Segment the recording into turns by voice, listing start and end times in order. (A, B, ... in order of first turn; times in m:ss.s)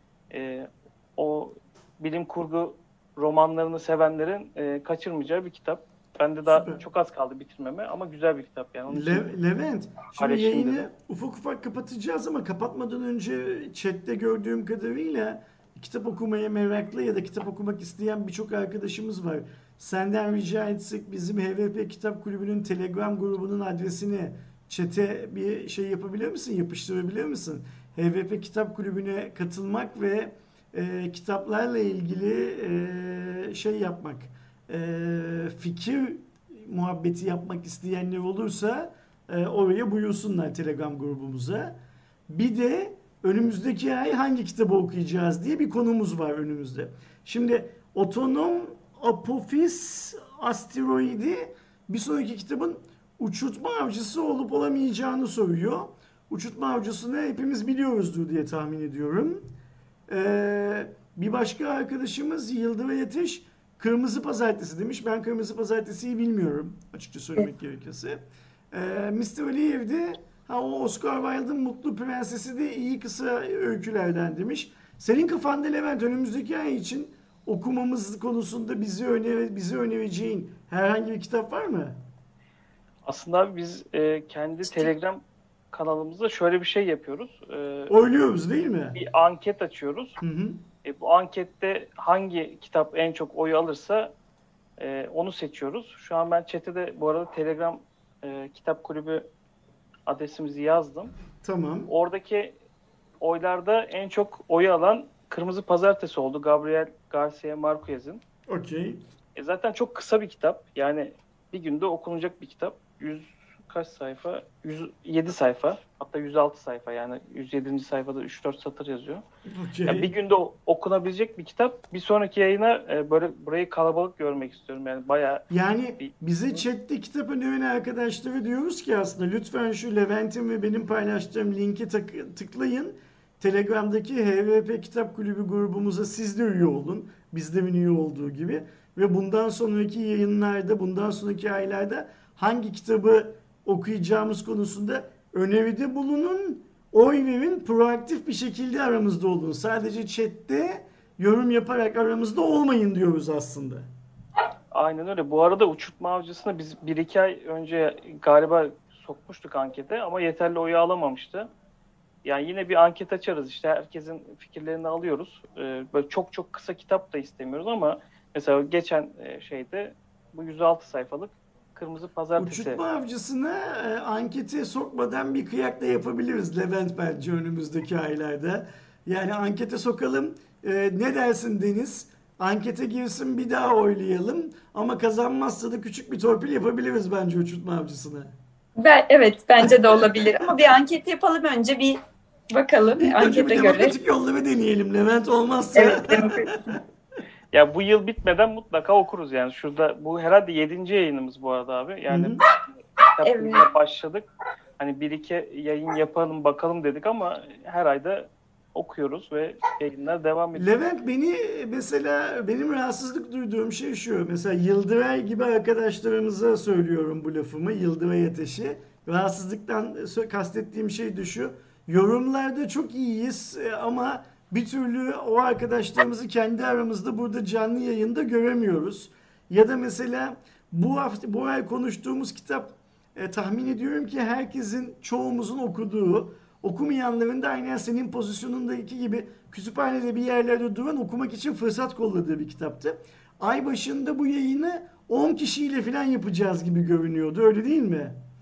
0:00.3-0:09.3 A
0:06.5-0:06.8 B
0:08.9-0:41.8 B
0:10.2-0:10.9 A
0:42.3-0:59.5 B
1:00.1-1:22.0 B
1:23.0-1:27.9 A
1:27.9-1:29.0 B
1:29.0-1:30.2 A
1:30.2-1:30.6 B
1:30.8-1:34.1 A
1:34.8-1:39.3 A
1:40.1-1:41.1 A
1:41.4-1:41.9 B
1:41.9-1:42.6 A
1:43.2-1:48.2 A
1:48.5-1:49.0 B
1:49.4-1:59.2 A
1:59.5-2:00.1 B
1:59.9-2:05.5 A
2:05.5-2:33.9 B
2:34.7-2:41.5 A
2:42.2-2:52.8 A
2:52.4-3:08.3 B
3:08.8-3:12.0 C
3:09.6-3:10.4 B
3:12.5-3:14.0 C
3:13.0-3:16.8 B
3:15.8-3:16.6 C
3:17.5-3:22.4 A
3:22.1-3:22.4 B
3:23.2-3:24.3 A
3:23.2-3:23.7 C
3:24.8-3:30.8 A
3:30.6-4:08.2 B